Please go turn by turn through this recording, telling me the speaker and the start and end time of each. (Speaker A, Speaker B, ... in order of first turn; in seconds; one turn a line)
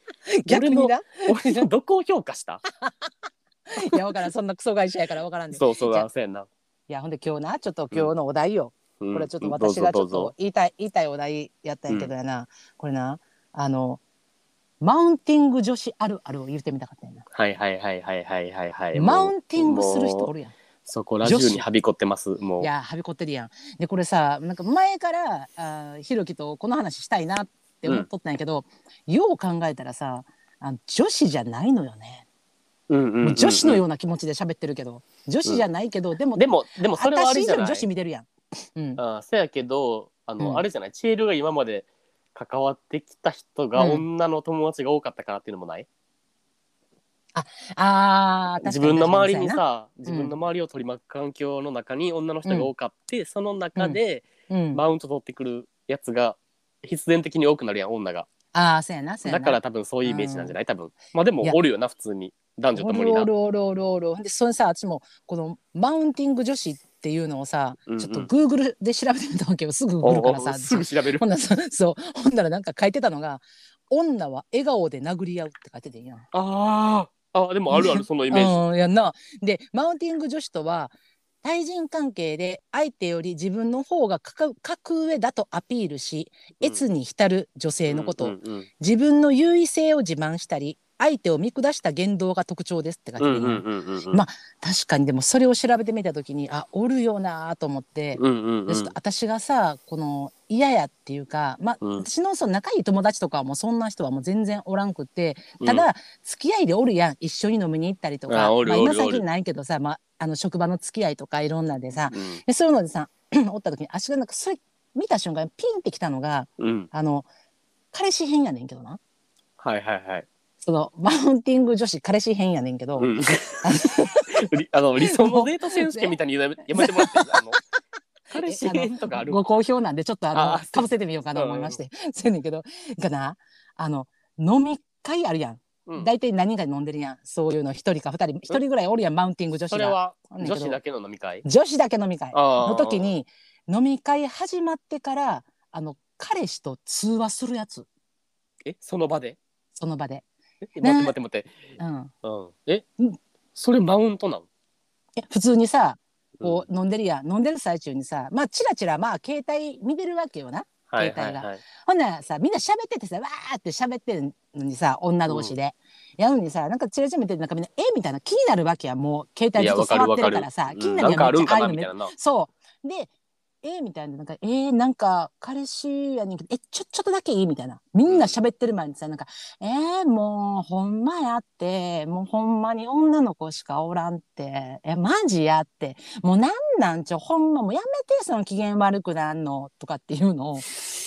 Speaker A: 0.3-1.7
Speaker B: 0.5-2.6
Speaker A: 3.7-6.1
Speaker B: 5.5-6.5
Speaker A: 6.9-14.0
Speaker B: 9.0-10.3
Speaker A: 14.8-17.2
Speaker B: 17.3-20.3
Speaker A: 18.9-20.5
Speaker B: 20.9-22.7
Speaker A: 21.2-21.6
Speaker A: 22.6-32.2
Speaker B: 32.9-33.8
Speaker A: 33.2-39.0
Speaker B: 36.3-37.9
Speaker B: 39.0-45.9
Speaker A: 43.8-44.0
Speaker A: 47.3-50.3
Speaker B: 48.6-58.3
Speaker A: 52.4-52.7
Speaker A: 53.8-54.8
Speaker A: 58.5-60.5
Speaker B: 59.2-63.3
Speaker A: 62.7-76.3
Speaker B: 67.9-68.3
Speaker B: 70.0-71.3
Speaker B: 76.3-78.6
Speaker A: 77.7-117.3
Speaker B: 87.9-88.7
Speaker B: 93.2-94.2
Speaker B: 98.2-98.9
Speaker B: 101.8-102.0
Speaker B: 105.6-105.9
Speaker B: 108.3-109.2
Speaker B: 112.1-112.4
Speaker B: 116.6-116.9
Speaker A: 117.9-119.0
Speaker B: 119.6-120.3
Speaker A: 120.6-124.4
Speaker B: 123.0-127.6
Speaker A: 125.0-126.2
Speaker A: 126.7-127.5
Speaker B: 128.3-129.4
Speaker A: 128.3-140.8
Speaker B: 130.3-131.8
Speaker B: 135.8-136.1
Speaker B: 139.7-141.4
Speaker A: 141.4-147.9
Speaker B: 142.3-143.1
Speaker B: 148.6-149.4
Speaker A: 149.8-150.2
Speaker B: 150.6-152.9
Speaker A: 150.8-151.1
Speaker A: 151.8-152.1
Speaker B: 153.5-154.4
Speaker A: 155.2-173.1
Speaker B: 156.4-156.7
Speaker B: 160.9-161.6
Speaker B: 165.3-165.5
Speaker B: 169.5-172.1
Speaker A: 173.6-190.8
Speaker B: 178.1-178.3